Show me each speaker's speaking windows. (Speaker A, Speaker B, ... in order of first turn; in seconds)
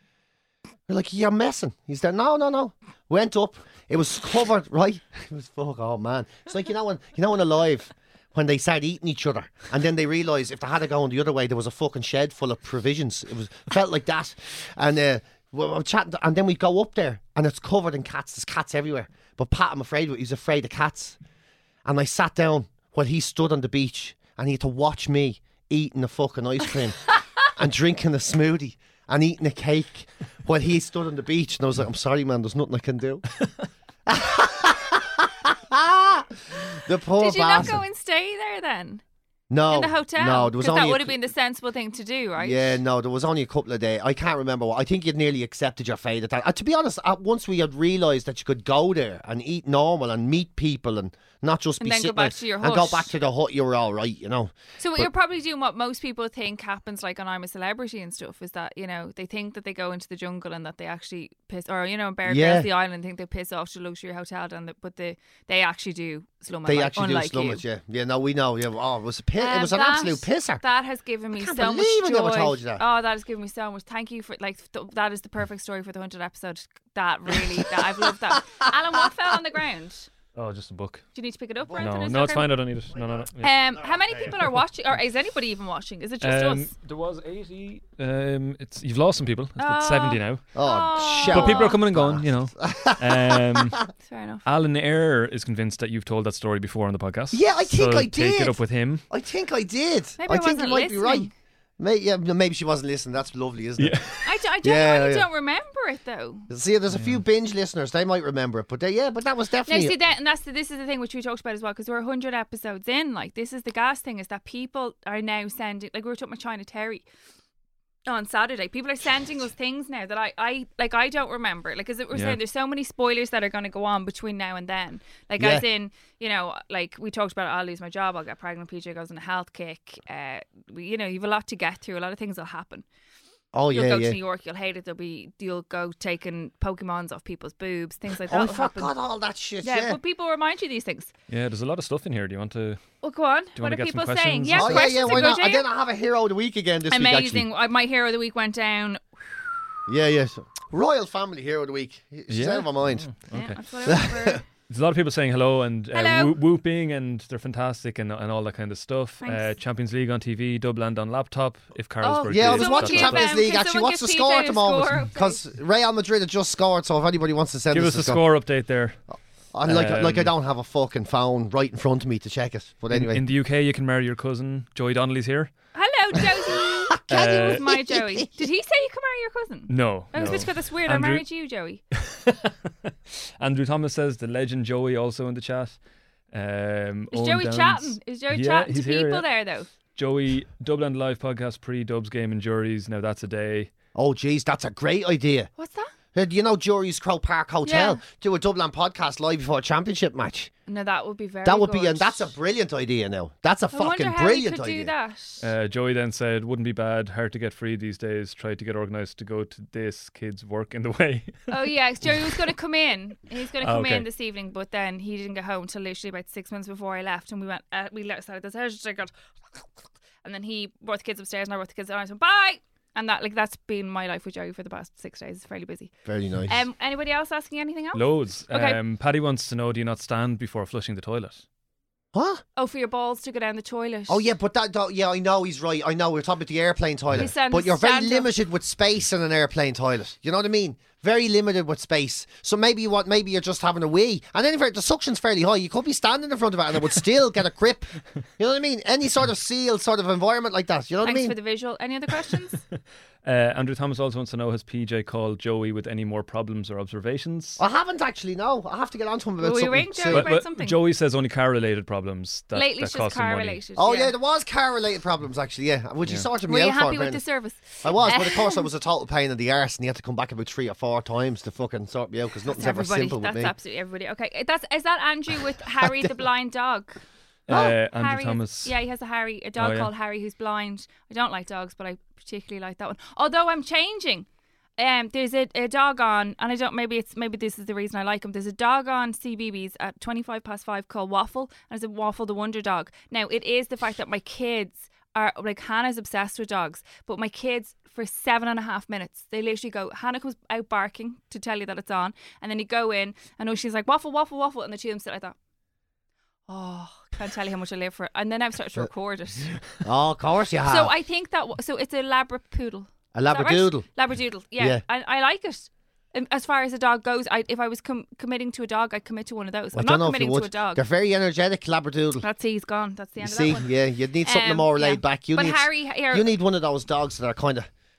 Speaker A: 0.9-21.2, 21.9-33.3, 34.1-37.8, 39.5-41.3, 42.4-55.1, 62.3-62.7, 66.7-70.6, 71.4-72.8, 82.9-83.2, 83.8-84.3, 90.5-93.8, 97.3-105.3, 106.5-110.0, 125.4-125.7, 133.5-134.2, 138.3-140.0, 144.5-147.5, 149.9-153.1, 153.9-154.4, 162.3-168.2, 169.1-173.2, 176.5-178.3, 193.9-195.5, 196.1-200.5, 201.4-204.9, 226.1-226.6, 232.1-232.4, 234.1-251.3, 257.6-260.3, 263.8-267.2, 267.8-273.5, 277.5-277.8, 309.8-310.9, 313.1-313.9, 319.7-322.3, 323.2-327.7
Speaker B: 37.2-39.0, 39.7-42.8, 51.8-53.1, 54.8-67.6, 69.4-80.1, 81.2-82.6, 83.4-86.7, 89.6-91.8, 94.1-94.5, 100.2-101.3, 104.2-106.5, 109.7-117.0, 118.1-132.9, 133.7-138.9, 139.6-141.1, 143.0-145.7, 146.9-149.0, 153.3-154.4, 155.9-156.4, 162.0-165.4, 175.7-181.8, 187.1-189.7, 195.6-195.9, 197.7-198.0, 200.7-202.3, 203.7-205.5, 211.5-219.1, 220.2-225.9, 226.5-228.8, 232.6-234.2, 237.2-238.3, 251.0-252.6, 259.4-260.8, 262.5-264.1, 266.4-268.7, 272.5-277.0, 277.5-284.3, 284.8-305.4, 306.5-309.5, 310.7-320.8, 322.2-323.7, 324.2-326.3
Speaker C: 80.3-81.0, 81.8-83.6, 86.2-90.5, 91.3-93.8, 94.5-99.0, 103.8-104.2, 106.9-107.2, 122.1-122.4, 141.3-142.9, 143.6-145.3, 152.3-153.6, 154.7-163.3, 167.7-169.0, 169.7-170.3, 172.9-175.5, 177.1-177.7, 179.7-181.2, 181.9-182.5, 183.4-185.8, 186.3-189.3, 189.9-193.7, 205.4-212.4, 213.6-214.1, 227.9-231.4, 253.2-257.6, 260.1-263.6, 277.5-278.7, 279.6-279.9